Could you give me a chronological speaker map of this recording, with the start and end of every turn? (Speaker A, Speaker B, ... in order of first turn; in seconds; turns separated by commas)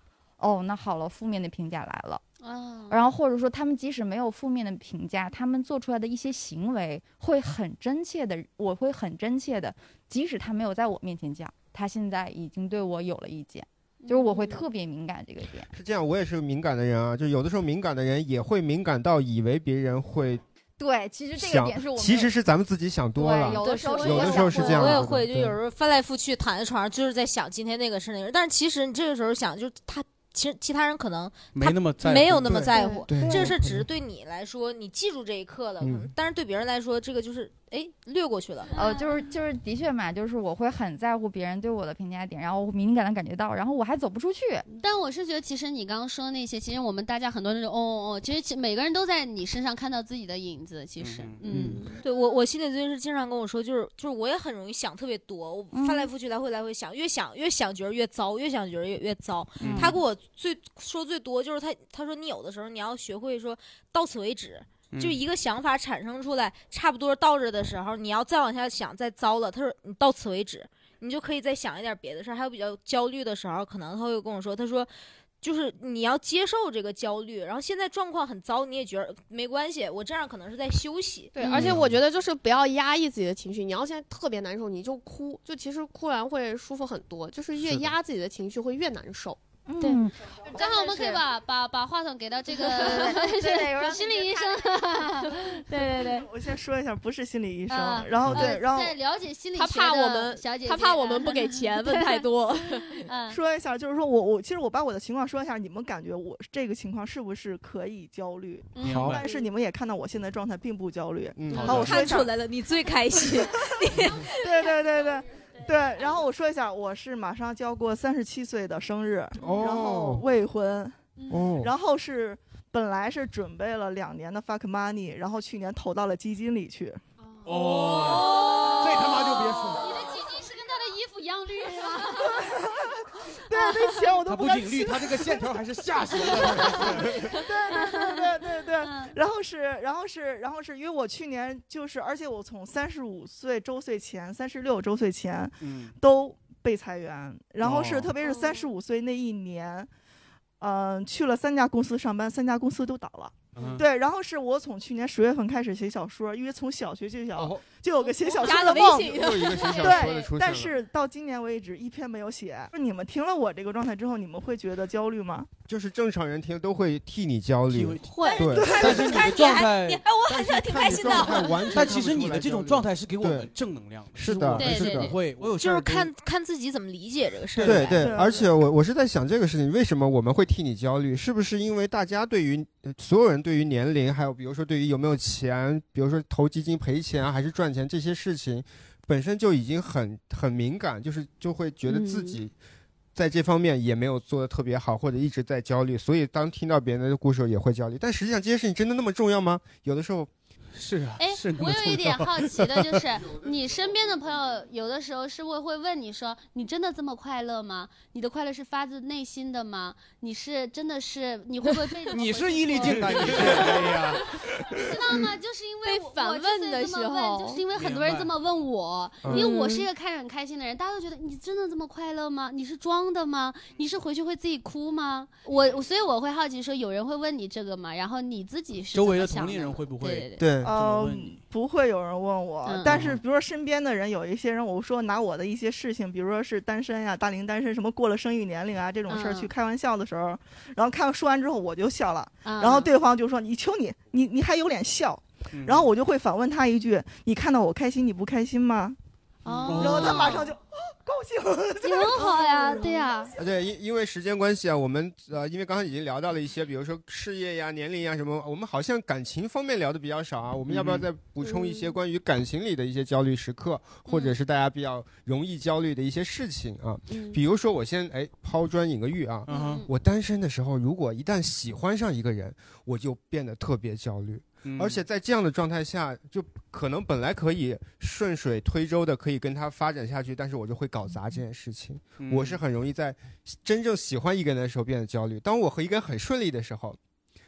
Speaker A: 0.4-2.2, Speaker B: 2.4-3.0, Speaker A: 2.9-15.7, Speaker B: 14.0-14.6, Speaker C: 15.7-20.4, Speaker A: 20.8-22.3, Speaker C: 21.4-25.6, Speaker A: 23.2-25.0, Speaker B: 23.5-24.7, Speaker D: 24.0-24.4, Speaker E: 24.6-38.7, Speaker F: 31.5-32.6, Speaker C: 32.4-33.9, Speaker D: 32.8-33.1, Speaker C: 35.8-36.1, Speaker B: 38.7-39.0, Speaker A: 38.7-44.6, Speaker B: 44.8-51.9, Speaker F: 51.0-51.8, Speaker D: 51.5-52.0, Speaker E: 52.0-74.9, Speaker A: 55.7-56.1, Speaker F: 59.6-60.0, Speaker F: 64.9-65.2, Speaker E: 75.4-81.4, Speaker D: 81.3-89.4, Speaker F: 87.6-87.9, Speaker A: 89.7-91.2, Speaker B: 90.5-96.3, Speaker A: 92.7-94.6, Speaker G: 96.1-98.9, Speaker B: 97.7-102.3, Speaker D: 99.5-103.0, Speaker B: 103.0-103.4, Speaker G: 103.3-112.4, Speaker B: 108.7-109.4, Speaker F: 108.8-109.2, Speaker C: 108.9-109.2, Speaker C: 111.3-112.0, Speaker F: 111.5-112.0, Speaker E: 111.9-113.3, Speaker G: 114.2-121.0, Speaker C: 119.4-120.3, Speaker C: 121.3-121.7, Speaker G: 121.6-127.0, Speaker B: 127.2-129.1, Speaker F: 127.4-130.1, Speaker B: 129.7-132.5, Speaker G: 132.2-135.4, Speaker B: 133.5-134.1, Speaker F: 134.2-137.3, Speaker G: 136.6-149.9, Speaker B: 137.1-138.2, Speaker B: 138.8-139.1, Speaker F: 145.6-145.9, Speaker F: 147.6-148.1, Speaker D: 148.2-148.6, Speaker G: 150.6-165.5, Speaker F: 153.6-153.8, Speaker C: 157.3-157.6, Speaker D: 158.0-159.9, Speaker B: 158.4-160.2, Speaker C: 158.7-160.7, Speaker C: 165.7-169.3, Speaker F: 167.7-168.1, Speaker D: 168.2-168.4, Speaker E: 168.4-171.7, Speaker G: 168.5-169.1, Speaker F: 168.6-170.0, Speaker C: 170.3-173.5, Speaker F: 171.6-176.0, Speaker C: 174.1-176.1, Speaker B: 174.6-175.1, Speaker E: 175.4-178.2, Speaker F: 177.6-177.8, Speaker C: 177.6-192.5, Speaker G: 177.8-178.4, Speaker D: 191.9-192.3, Speaker C: 193.1-200.3, Speaker F: 200.8-202.6, Speaker B: 201.2-213.9, Speaker F: 212.1-214.3, Speaker B: 214.7-230.5, Speaker D: 215.8-217.6, Speaker F: 217.8-218.3, Speaker D: 219.3-219.9, Speaker F: 228.9-231.4, Speaker C: 230.4-230.7, Speaker G: 230.6-248.9, Speaker B: 232.6-232.9, Speaker F: 232.9-233.2, Speaker B: 239.1-239.5, Speaker B: 242.4-242.9, Speaker F: 245.5-245.9, Speaker B: 249.4-250.5, Speaker F: 249.6-250.4, Speaker G: 249.8-253.2, Speaker B: 251.8-253.3, Speaker C: 253.4-287.0, Speaker F: 260.7-261.1, Speaker D: 261.4-261.9, Speaker D: 264.1-264.3, Speaker D: 267.1-267.4, Speaker F: 269.5-269.8, Speaker B: 269.5-269.9, Speaker D: 269.5-269.8, Speaker F: 274.6-275.0, Speaker F: 282.2-282.6